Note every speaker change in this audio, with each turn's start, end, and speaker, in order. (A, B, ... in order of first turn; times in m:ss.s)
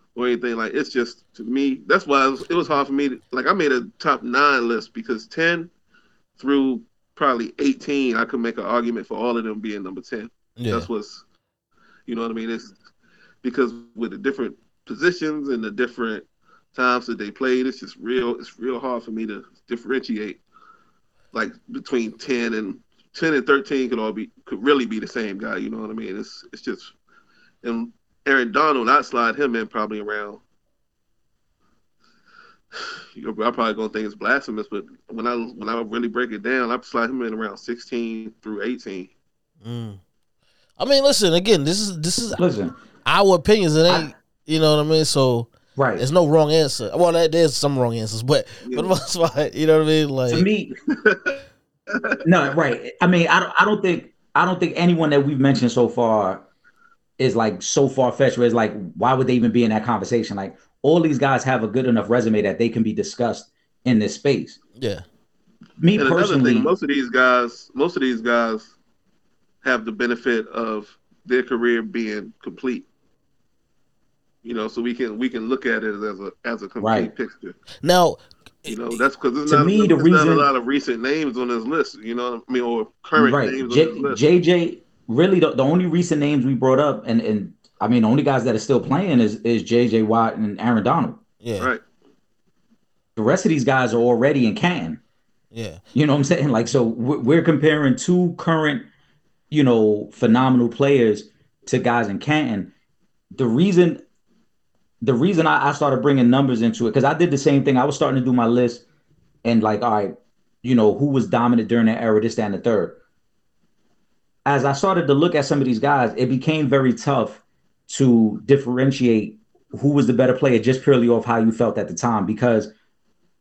0:00.1-0:05.7 A
0:06.4-0:11.2 A
0:10.6-0:10.9 B
0:12.1-0:12.7 A
0:13.4-0:20.4 A
0:21.3-0:26.9 A
0:27.6-0:30.4 A
0:32.7-0:39.1 A
0:39.6-0:40.0 B
0:40.8-0:42.4 B
0:42.4-0:42.8 C
0:43.0-0:50.4 B
0:45.8-0:46.0 C
0:48.6-0:48.9 A
0:50.3-0:50.7 C
0:51.0-0:51.4 A
0:51.9-0:52.2 A
0:52.2-0:56.4 C
0:57.2-1:04.6 C
1:04.8-1:05.0 B
1:05.8-1:06.7 C
1:05.9-1:08.7 A
1:09.6-1:12.9 A
1:14.4-1:17.6 A
1:16.8-1:17.1 C
1:17.8-1:19.0 B
1:18.7-1:24.2 A
1:19.5-1:20.5 C
1:23.2-1:31.2 C
1:31.4-1:31.7 B
1:33.2-1:35.0 C
1:35.5-1:35.8 B
1:35.9-1:38.8 C
1:39.5-1:42.7 C
1:43.3-1:44.0 C
1:45.0-1:48.8 C
1:49.4-1:53.0 C
1:54.4-2:02.7 C